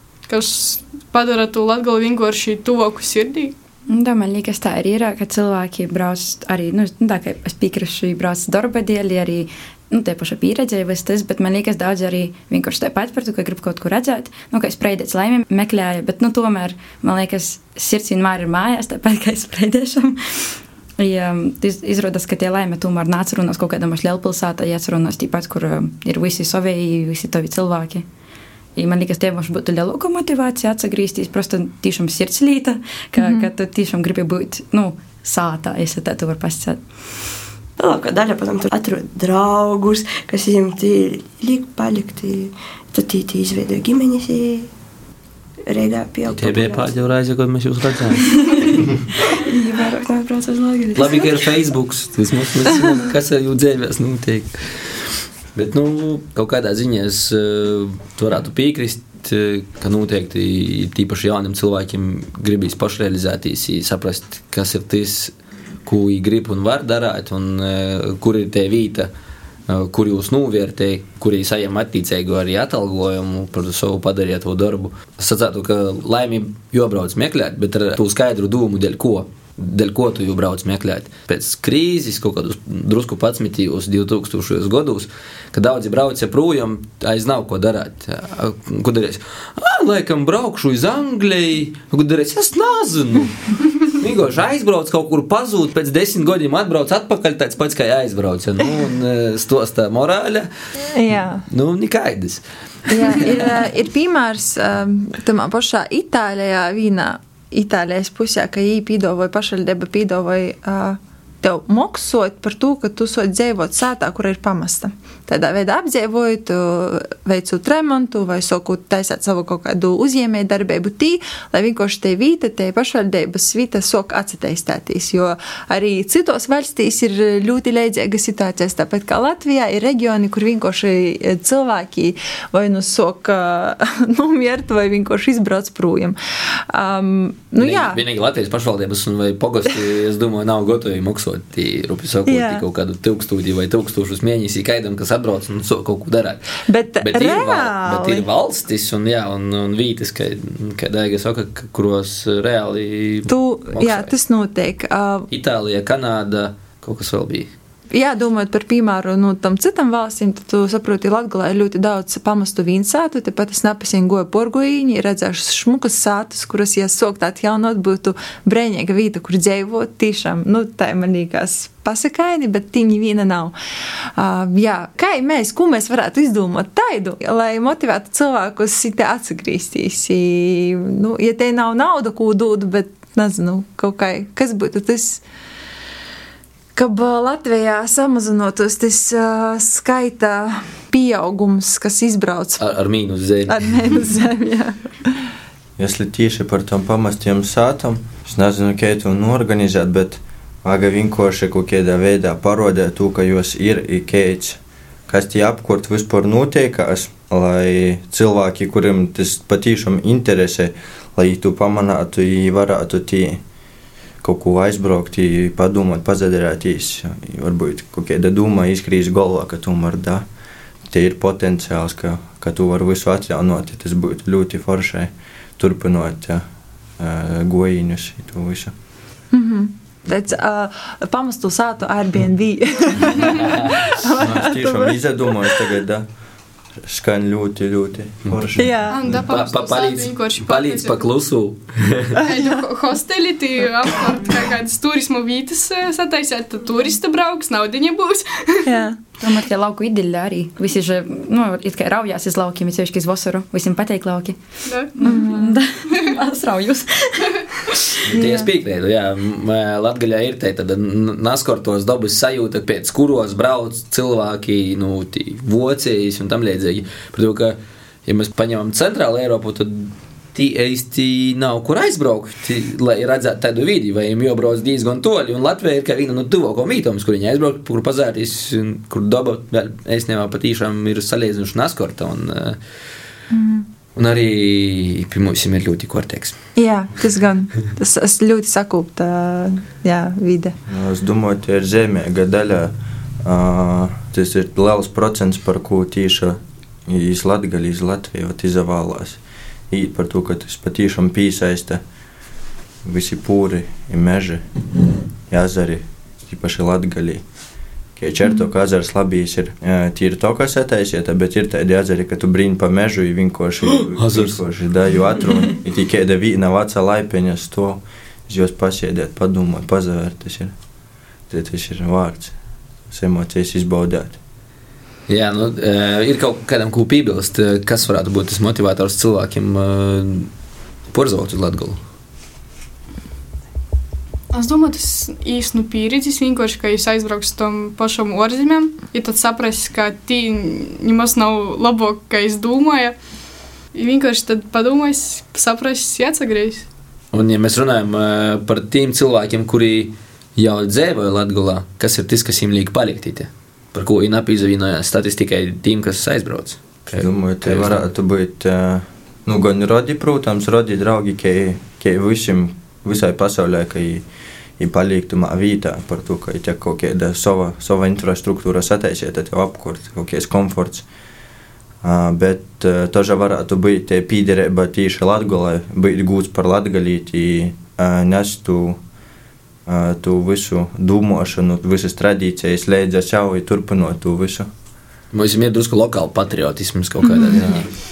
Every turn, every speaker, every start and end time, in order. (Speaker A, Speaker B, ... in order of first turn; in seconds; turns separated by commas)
Speaker A: 0.3-3.5, Speaker B: 3.9-28.1, Speaker B: 28.8-36.8, Speaker C: 33.2-33.5, Speaker D: 37.8-44.7, Speaker D: 45.7-46.9, Speaker E: 46.3-48.4, Speaker D: 48.3-51.4, Speaker E: 50.9-65.3, Speaker E: 65.8-69.1, Speaker E: 69.7-100.5, Speaker C: 100.9-101.4, Speaker E: 101.5-103.3, Speaker C: 102.9-138.0, Speaker E: 137.6-154.1, Speaker C: 142.2-142.6, Speaker C: 146.7-148.2, Speaker C: 153.3-155.3, Speaker E: 155.3-157.5, Speaker C: 157.9-185.2, Speaker C: 186.7-192.6, Speaker E: 192.6-193.8, Speaker C: 193.4-195.3, Speaker F: 195.8-213.4, Speaker F: 214.2-220.2, Speaker F: 220.9-226.4, Speaker F: 227.0-228.7, Speaker C: 229.3-235.7, Speaker F: 234.1-236.1, Speaker F: 236.8-239.2, Speaker C: 238.6-239.0, Speaker A: 238.9-241.1, Speaker E: 239.1-242.2, Speaker A: 242.2-248.7, Speaker C: 248.6-249.0, Speaker B: 249.2-254.4, Speaker A: 254.7-254.9, Speaker B: 254.9-257.9, Speaker C: 255.0-255.6, Speaker E: 258.1-282.6, Speaker C: 258.1-258.5, Speaker C: 283.3-283.7, Speaker E: 283.9-286.4, Speaker C: 286.6-290.6, Speaker F: 290.7-301.8, Speaker F: 302.8-304.4, Speaker F: 305.3-307.2, Speaker F: 307.9-320.5, Speaker E: 314.0-314.4, Speaker F: 321.3-322.3, Speaker F: 322.9-324.2, Speaker E: 325.1-330.3, Speaker E: 330.9-331.8, Speaker A: 334.3-343.0, Speaker A: 343.7-346.7, Speaker E: 347.1-357.8, Speaker F: 356.9-364.0, Speaker F: 364.6-370.8, Speaker F: 371.8-378.8, Speaker F: 379.6-384.5, Speaker E: 385.1-387.7, Speaker C: 387.0-387.4, Speaker F: 387.2-387.7